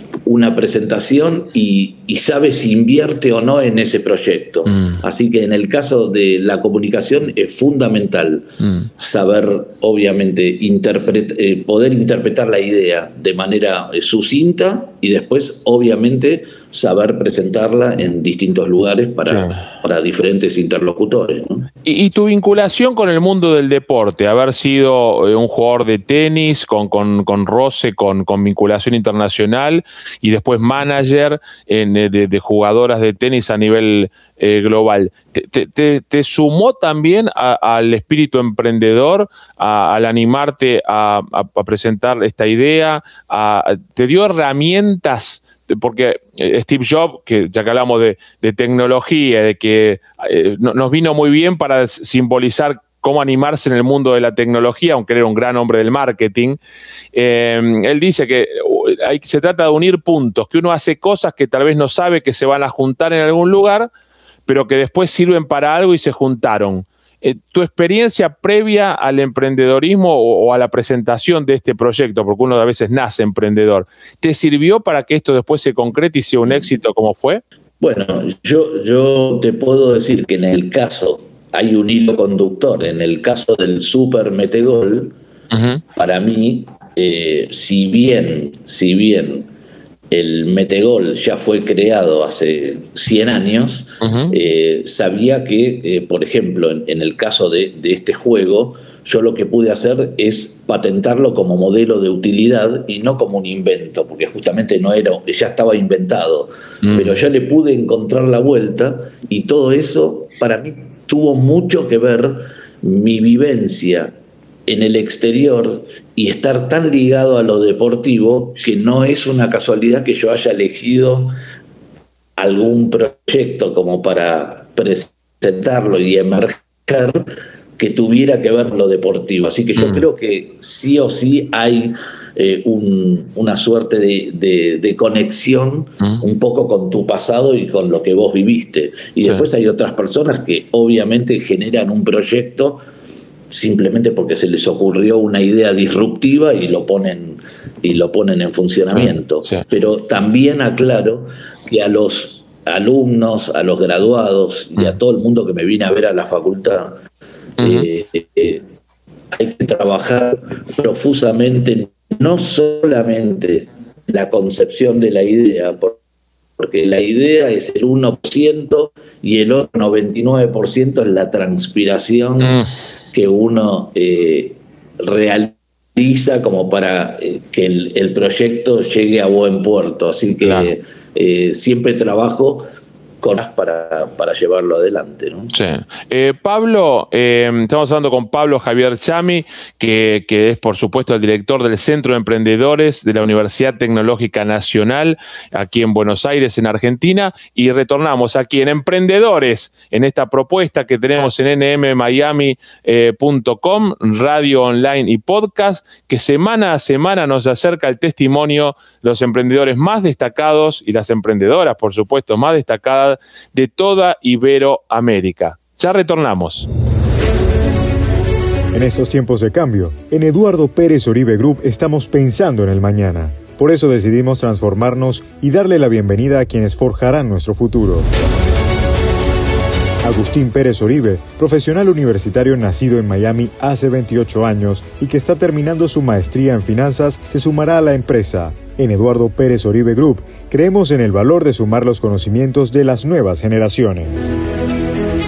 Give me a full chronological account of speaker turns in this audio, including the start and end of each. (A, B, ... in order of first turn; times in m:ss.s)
0:00.2-0:21.7 A
0:19.3-0:19.6 B
0:21.8-0:56.6 B
0:57.1-1:03.9 B
1:04.5-1:17.4 B
1:17.8-1:25.1 A
1:25.5-1:25.8 B
1:26.0-1:29.5 A
1:30.1-1:54.1 A
1:34.0-1:34.3 B
1:46.8-1:47.2 B
1:54.7-2:01.3 A
2:02.4-2:07.2 A
2:07.8-2:22.8 A
2:09.8-2:10.0 B
2:23.5-2:37.0 A
2:29.0-2:29.6 B
2:37.6-2:37.9 B
2:37.6-2:38.6 A
2:39.3-2:46.0 A
2:46.6-2:52.6 A
2:52.4-2:52.7 B
2:53.1-3:02.6 A
3:00.4-3:00.7 B
3:03.2-3:05.5 A
3:05.5-3:36.7 B
3:38.7-3:48.1 C
3:50.0-4:04.3 C